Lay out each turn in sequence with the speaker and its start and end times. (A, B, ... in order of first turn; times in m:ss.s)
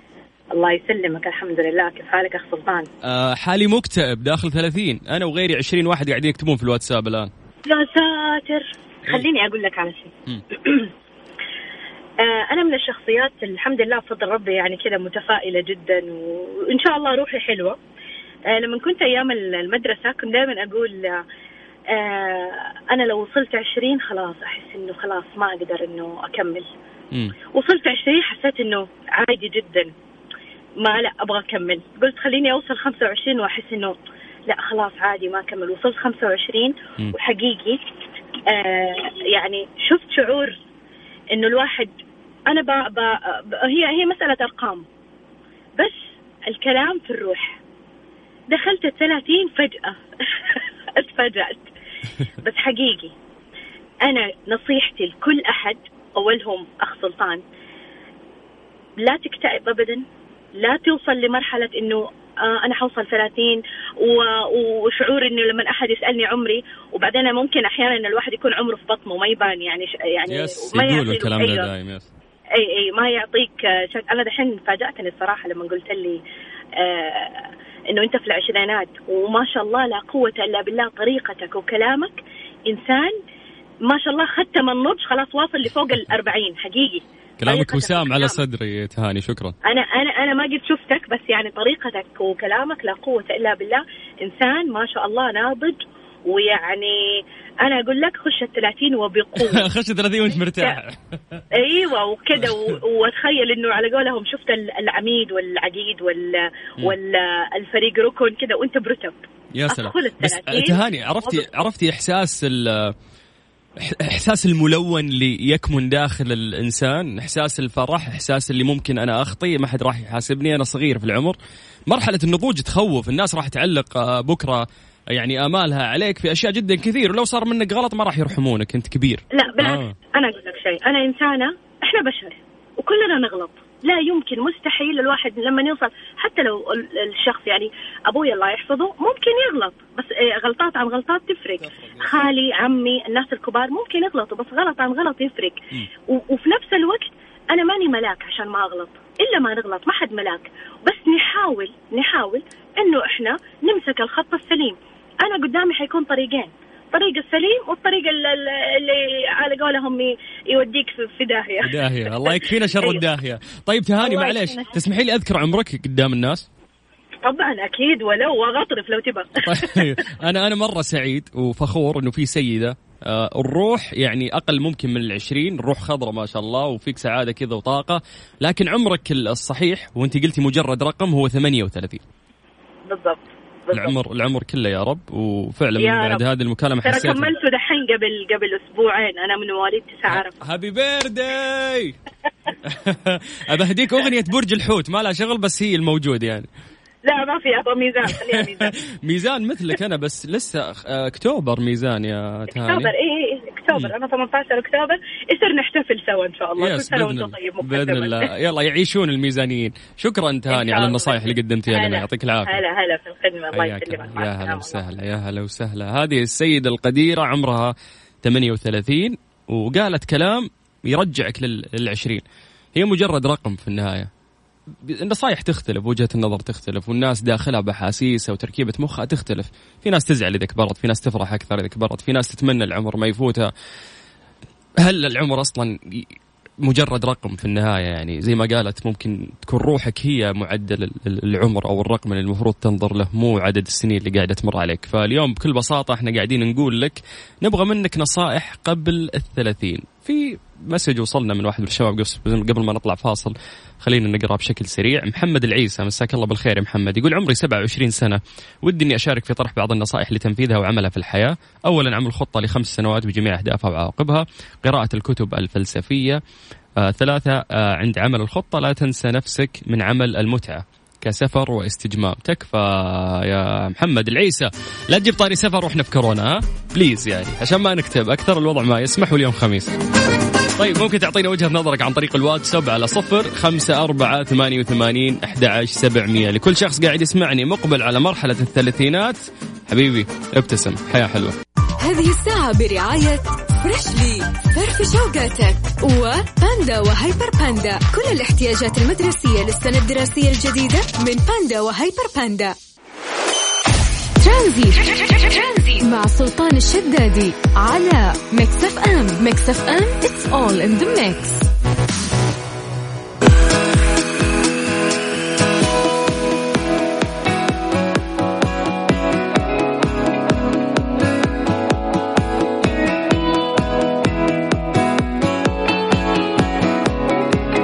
0:00.5-0:02.9 A
0:03.0-0:07.3 B
0:07.7-0:10.9 A
0:12.2-0:17.8 A
0:18.5-0:21.2 A
0:21.9-0:26.7 A
0:27.5-0:29.9 A
0:30.8-0:37.8 A
0:38.5-0:40.6 A
0:41.3-0:41.9 A
0:42.5-0:44.8 A
0:45.8-0:47.6 A
0:48.5-0:51.7 A
0:52.4-0:53.1 A
0:54.0-0:57.4 A
0:59.0-1:00.0 A
1:00.6-1:11.7 A
1:10.3-1:12.1 B
1:12.6-1:16.2 A
1:16.8-1:23.2 A
1:23.9-1:28.4 A
1:27.4-1:29.6 B
1:29.6-1:37.0 A
1:37.6-1:39.7 A
1:39.4-1:41.4 B
1:41.5-1:51.5 A
1:42.4-1:42.7 B
1:49.5-1:52.9 B
1:53.8-2:01.4 B
2:01.9-2:09.9 B
2:09.3-2:43.0 A
2:21.6-2:22.2 B
2:41.6-2:46.4 B
2:44.0-2:44.7 A
2:47.2-2:50.1 A
2:49.4-3:02.0 B
3:02.9-3:04.0 A
3:03.7-3:07.3 B
3:05.8-3:06.2 A
3:06.8-3:10.3 A
3:10.1-3:12.0 B
3:12.6-3:16.5 B
3:17.0-3:18.7 A
3:18.3-3:22.9 B
3:22.5-3:28.3 A
3:26.6-3:32.6 B
3:30.5-3:34.9 A
3:33.5-3:42.2 B
3:42.8-3:44.1 B
3:44.8-3:53.5 B
3:54.8-3:56.1 B
3:56.6-4:26.2 B
4:26.8-4:39.7 B
4:40.6-4:51.4 B
4:51.8-5:02.6 C
5:04.2-5:11.5 C